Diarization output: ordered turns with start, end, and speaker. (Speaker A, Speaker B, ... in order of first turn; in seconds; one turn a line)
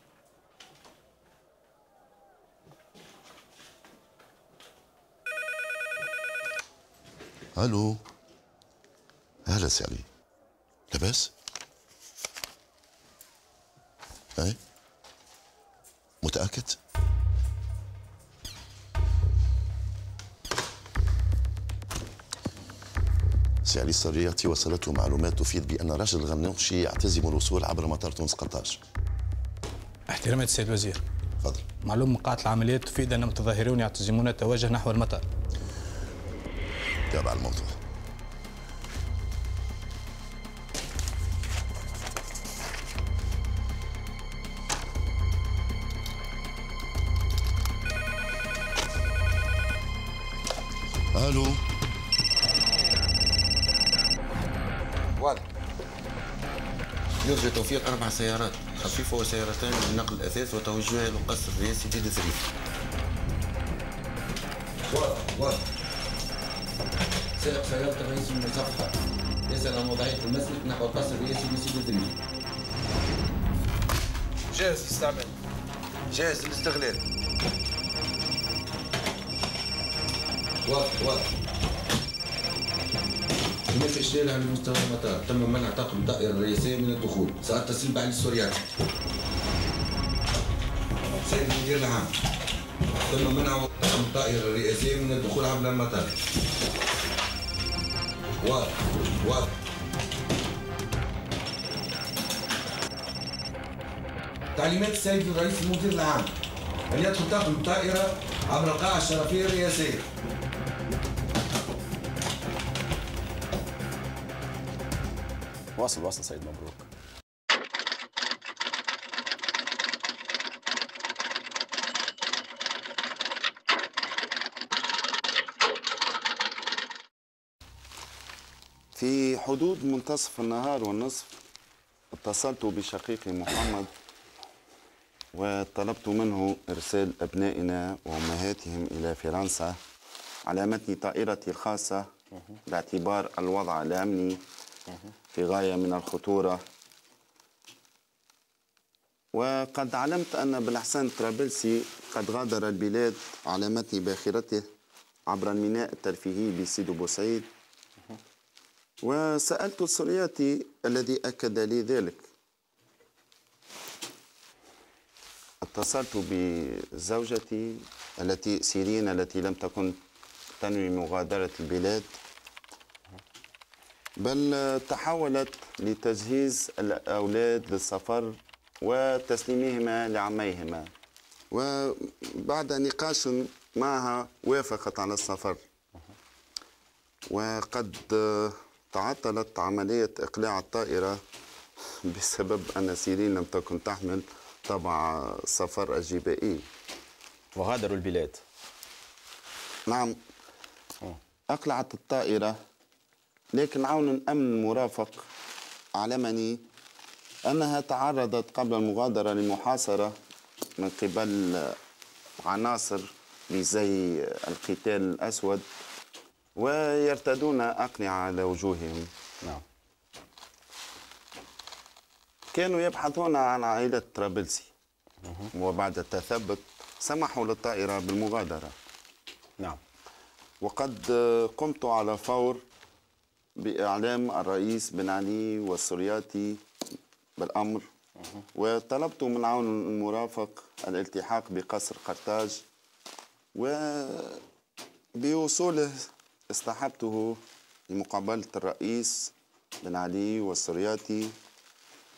Speaker A: 7.5-8.0
Speaker A: 9.5-10.1
Speaker A: 10.9-11.3
Speaker A: 16.2-16.8
Speaker A: 23.6-28.8
Speaker B: 30.1-31.0
Speaker A: 31.4-31.7
Speaker B: 31.8-35.2
Speaker A: 37.1-37.8
Speaker A: 51.1-51.6
Speaker C: 55.2-55.4
Speaker C: 57.2-62.4
Speaker C: 64.9-65.6
Speaker C: 67.4-68.9
Speaker C: 69.5-72.1
Speaker C: 74.5-75.3
Speaker C: 76.1-77.0
Speaker C: 80.7-81.3
Speaker C: 83.7-88.6
Speaker C: 91.2-92.1
Speaker C: 93.1-96.1
Speaker C: 98.4-99.5
Speaker C: 104.5-106.3
Speaker C: 106.9-110.0
Speaker D: 115.8-116.9
Speaker E: 128.9-131.3
Speaker E: 132.1-133.9
Speaker E: 135.3-139.8
Speaker E: 140.5-142.1
Speaker E: 142.7-144.4
Speaker E: 145.3-146.6
Speaker E: 149.3-154.6
Speaker E: 155.3-157.5
Speaker E: 159.0-162.3
Speaker E: 165.6-170.0
Speaker E: 170.6-172.2
Speaker E: 174.2-180.9
Speaker E: 181.5-185.6
Speaker E: 187.3-191.2
Speaker E: 192.1-196.7
Speaker D: 197.6-198.4
Speaker E: 199.9-200.2
Speaker E: 201.5-202.6
Speaker E: 203.5-205.3
Speaker E: 206.0-206.6
Speaker E: 207.5-210.1
Speaker E: 210.8-211.8
Speaker E: 212.4-215.7
Speaker E: 216.6-219.1
Speaker E: 222.5-224.7
Speaker E: 225.5-228.7
Speaker E: 230.6-232.6
Speaker E: 233.6-236.6
Speaker E: 237.4-237.9
Speaker E: 238.6-242.6
Speaker E: 243.6-244.4
Speaker E: 245.2-247.4
Speaker E: 247.9-251.3